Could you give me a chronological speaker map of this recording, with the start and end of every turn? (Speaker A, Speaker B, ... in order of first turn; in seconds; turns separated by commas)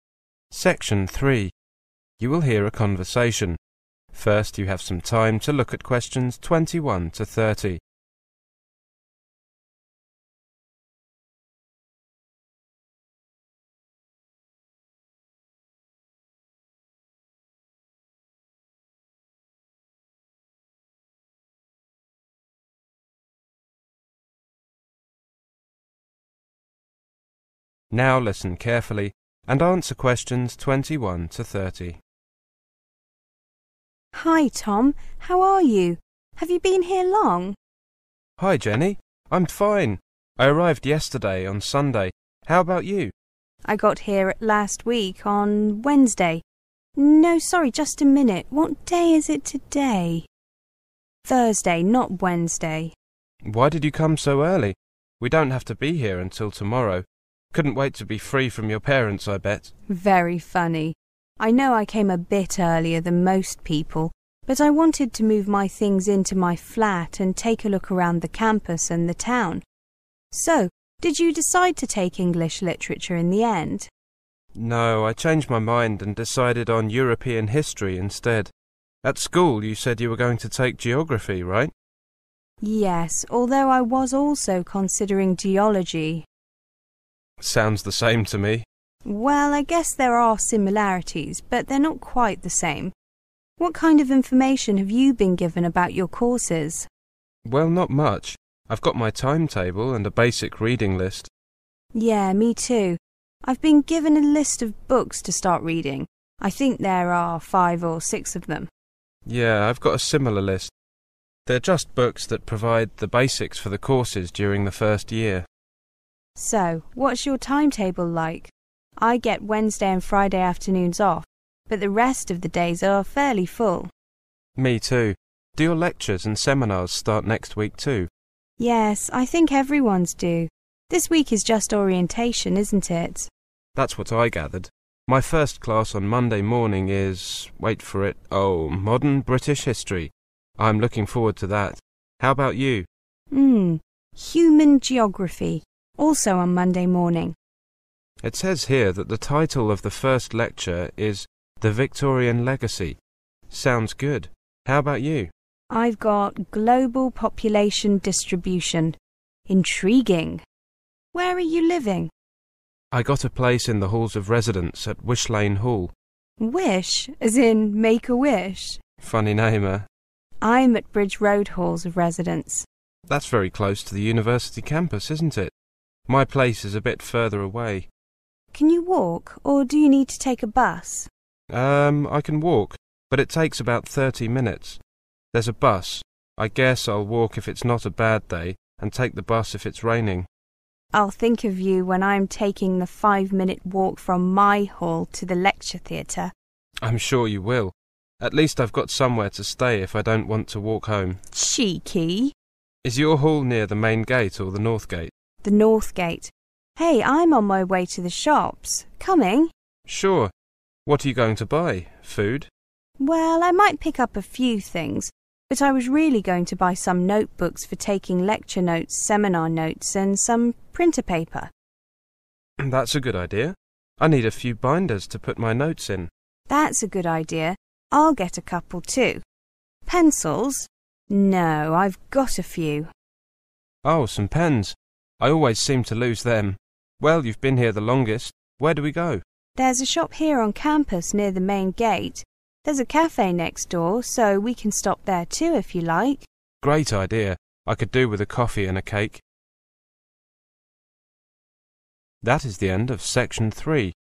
Speaker A: 0.5-1.5, Speaker A: 2.2-3.6, Speaker A: 4.1-7.8, Speaker A: 27.9-32.0, Speaker B: 34.1-37.6, Speaker A: 38.4-43.1, Speaker B: 43.6-46.4, Speaker B: 47.0-50.3, Speaker B: 51.2-53.0, Speaker A: 53.4-59.7, Speaker B: 59.9-69.6, Speaker B: 70.3-73.9, Speaker A: 74.5-78.5, Speaker A: 79.0-81.7, Speaker B: 82.6-86.3, Speaker A: 87.4-88.7, Speaker B: 89.0-92.9, Speaker B: 93.6-96.9, Speaker A: 97.5-101.3, Speaker B: 101.9-108.7, Speaker A: 109.3-110.7, Speaker A: 111.5-115.5, Speaker B: 116.4-123.9, Speaker A: 124.6-128.1, Speaker B: 128.6-133.3, Speaker A: 133.8-142.9, Speaker B: 143.3-147.4, Speaker A: 148.2-153.0, Speaker A: 153.5-155.3, Speaker B: 155.7-159.0, Speaker B: 159.5-160.4, Speaker B: 161.1-162.1, Speaker A: 162.9-165.9, Speaker B: 166.4-168.8, Speaker A: 169.0-169.9, Speaker B: 170.4-172.7, Speaker A: 173.1-175.5, Speaker A: 176.1-177.9, Speaker B: 178.5-181.1, Speaker A: 181.5-184.8, Speaker A: 185.3-190.3, Speaker B: 190.9-196.3, Speaker A: 196.8-201.2, Speaker B: 201.3-202.3, Speaker A: 202.8-205.1, Speaker B: 205.4-209.5, Speaker A: 209.9-210.3, Speaker A: 210.9-212.5, Speaker B: 213.0-221.5, Speaker A: 222.6-226.1, Speaker B: 226.5-229.2, Speaker B: 229.9-232.9, Speaker A: 233.8-239.2, Speaker B: 239.6-246.3, Speaker A: 246.6-249.2, Speaker A: 252.2-253.9